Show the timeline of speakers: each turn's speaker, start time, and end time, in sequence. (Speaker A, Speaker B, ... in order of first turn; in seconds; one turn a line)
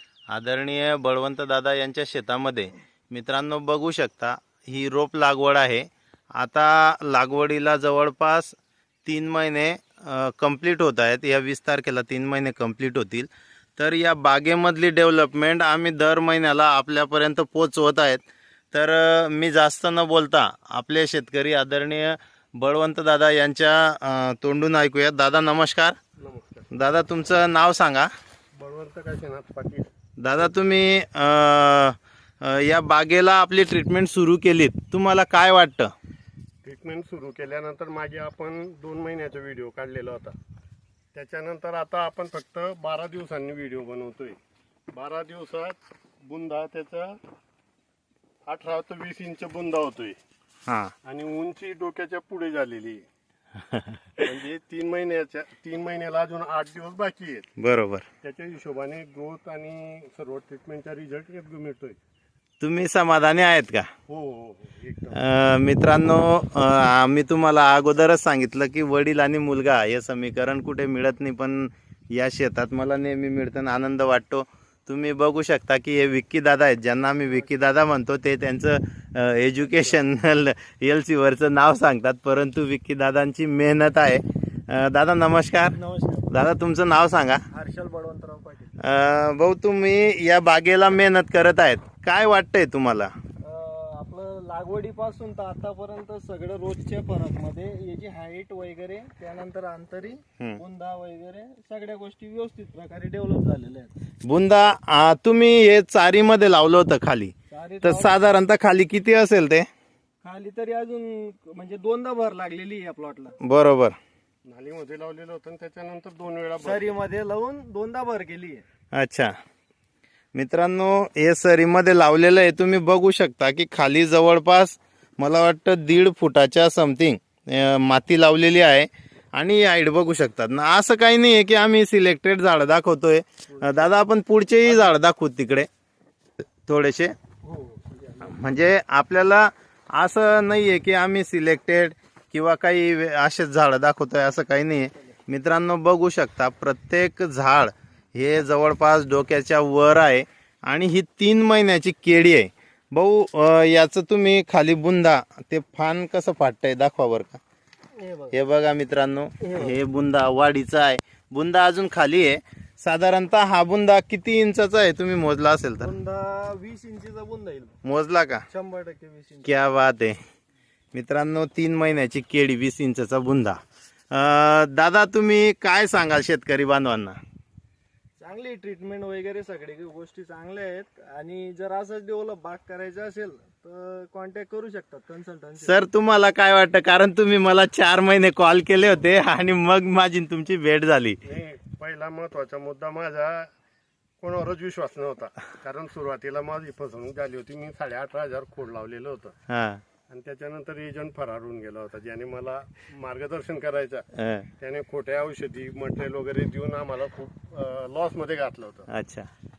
Speaker A: 0.3-26.0
Speaker B: 26.2-26.7
Speaker A: 26.7-28.1
Speaker B: 28.6-29.9
Speaker A: 30.2-35.9
Speaker B: 36.6-40.4
Speaker B: 41.1-44.4
Speaker B: 44.9-47.2
Speaker B: 48.5-50.2
Speaker A: 50.7-50.9
Speaker B: 51.0-53.0
Speaker A: 53.7-54.0
Speaker B: 54.2-57.5
Speaker A: 57.6-58.0
Speaker B: 58.2-62.0
Speaker A: 62.6-63.9
Speaker B: 64.1-65.2
Speaker A: 65.1-85.8
Speaker C: 85.7-86.4
Speaker A: 86.3-87.4
Speaker C: 87.5-88.8
Speaker A: 88.8-93.1
Speaker C: 93.4-103.9
Speaker A: 104.3-109.7
Speaker C: 107.5-108.2
Speaker C: 110.2-113.4
Speaker A: 113.4-114.0
Speaker B: 114.5-116.9
Speaker C: 116.6-118.6
Speaker A: 118.9-119.3
Speaker A: 120.3-135.7
Speaker C: 133.5-133.9
Speaker A: 136.7-137.2
Speaker C: 137.4-138.4
Speaker A: 138.2-157.4
Speaker C: 157.9-158.4
Speaker A: 158.3-165.9
Speaker C: 159.4-159.8
Speaker C: 165.8-167.8
Speaker A: 167.8-168.4
Speaker C: 168.5-169.7
Speaker A: 169.4-170.2
Speaker A: 170.9-173.6
Speaker A: 174.1-177.2
Speaker C: 178.2-185.8
Speaker A: 185.6-191.2
Speaker B: 191.2-193.5
Speaker B: 194.2-199.3
Speaker A: 199.5-199.8
Speaker B: 200.1-204.1
Speaker A: 204.2-204.5
Speaker B: 204.6-208.9
Speaker A: 208.9-209.3